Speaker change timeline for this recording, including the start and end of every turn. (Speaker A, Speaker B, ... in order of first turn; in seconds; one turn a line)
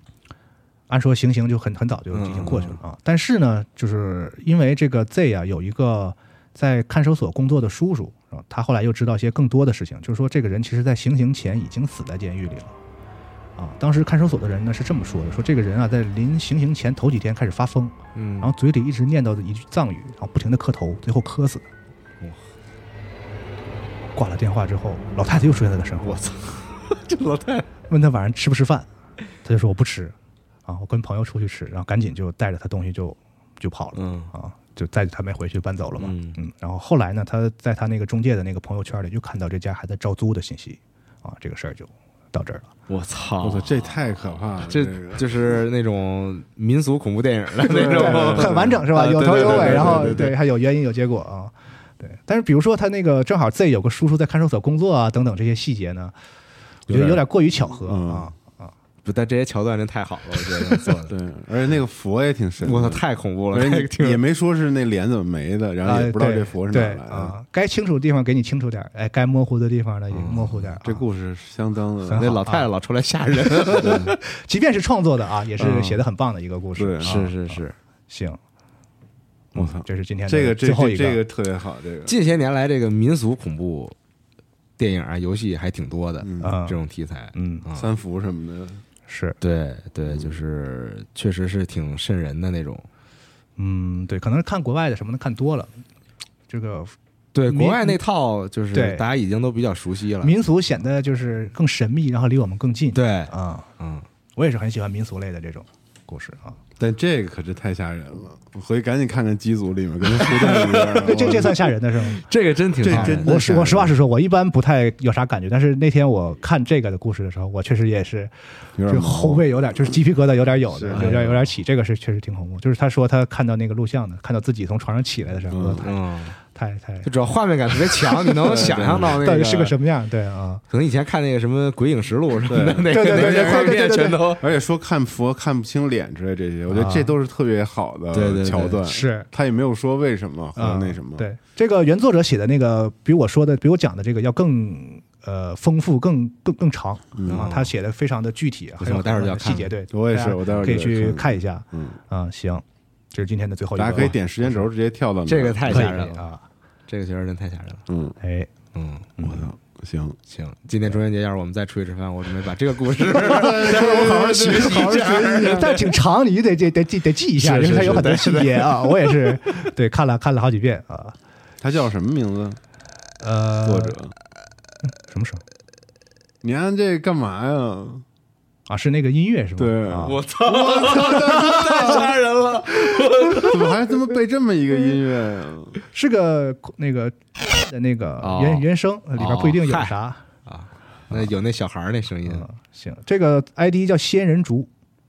Speaker A: 0.9-12.8
Speaker B: 2.1-2.8
Speaker A: 13.6-21.7
Speaker B: 18.1-18.5
Speaker A: 24.1-26.2
Speaker B: 26.0-27.7
Speaker A: 27.9-28.9
Speaker A: 29.4-30.1
Speaker A: 30.7-42.7
Speaker B: 34.0-34.3
Speaker B: 36.0-36.4
Speaker B: 42.9-44.0
Speaker C: 43.4-45.6
Speaker B: 44.6-50.3
Speaker C: 47.6-50.3
Speaker A: 47.7-56.1
Speaker A: 56.9-58.7
Speaker C: 56.9-58.3
Speaker B: 59.0-61.1
Speaker C: 61.1-67.4
Speaker B: 62.6-64.2
Speaker A: 65.8-71.0
Speaker B: 70.1-70.8
Speaker C: 70.8-72.4
Speaker A: 72.1-72.7
Speaker B: 72.1-74.2
Speaker A: 73.5-78.4
Speaker B: 75.6-76.0
Speaker C: 76.8-77.3
Speaker B: 77.0-77.8
Speaker A: 79.5-81.2
Speaker C: 79.5-82.2
Speaker B: 82.1-84.0
Speaker B: 84.8-87.9
Speaker C: 86.2-86.6
Speaker A: 86.4-86.8
Speaker A: 87.3-87.7
Speaker C: 87.7-88.8
Speaker A: 89.1-89.4
Speaker B: 89.4-92.9
Speaker C: 90.1-90.4
Speaker A: 93.6-95.7
Speaker A: 96.5-97.0
Speaker B: 97.3-100.3
Speaker A: 97.5-98.0
Speaker A: 98.7-99.0
Speaker A: 100.2-103.7
Speaker B: 102.9-104.1
Speaker A: 104.4-106.6
Speaker C: 106.8-111.7
Speaker B: 110.1-111.5
Speaker A: 110.9-112.2
Speaker B: 112.2-113.3
Speaker C: 112.8-114.0
Speaker A: 112.8-118.3
Speaker C: 118.8-119.9
Speaker A: 118.8-127.1
Speaker C: 120.7-121.4
Speaker B: 120.9-121.4
Speaker C: 125.5-125.8
Speaker B: 125.8-126.4
Speaker B: 127.0-129.8
Speaker C: 128.4-129.2
Speaker A: 129.0-130.6
Speaker B: 130.7-134.4
Speaker C: 132.4-141.2
Speaker A: 132.9-134.3
Speaker A: 136.7-137.1
Speaker B: 138.1-138.8
Speaker A: 138.9-139.3
Speaker A: 140.6-154.7
Speaker C: 147.2-147.5
Speaker B: 147.3-147.7
Speaker B: 148.8-149.8
Speaker C: 149.9-152.0
Speaker C: 153.8-156.1
Speaker B: 155.3-156.2
Speaker A: 155.7-156.4
Speaker B: 156.9-157.8
Speaker C: 157.9-158.2
Speaker A: 158.2-158.5
Speaker B: 158.7-159.5
Speaker C: 159.2-160.2
Speaker B: 160.3-166.0
Speaker C: 162.9-165.8
Speaker A: 163.4-171.2
Speaker B: 167.4-169.4
Speaker C: 167.6-168.2
Speaker C: 171.6-172.6
Speaker A: 173.2-174.0
Speaker C: 173.6-174.1
Speaker A: 175.1-175.4
Speaker C: 176.4-178.1
Speaker A: 178.7-180.2
Speaker C: 179.6-182.2
Speaker B: 180.0-183.8
Speaker C: 183.3-185.8
Speaker A: 185.9-190.2
Speaker B: 188.2-189.9
Speaker B: 190.5-192.5
Speaker A: 192.3-194.7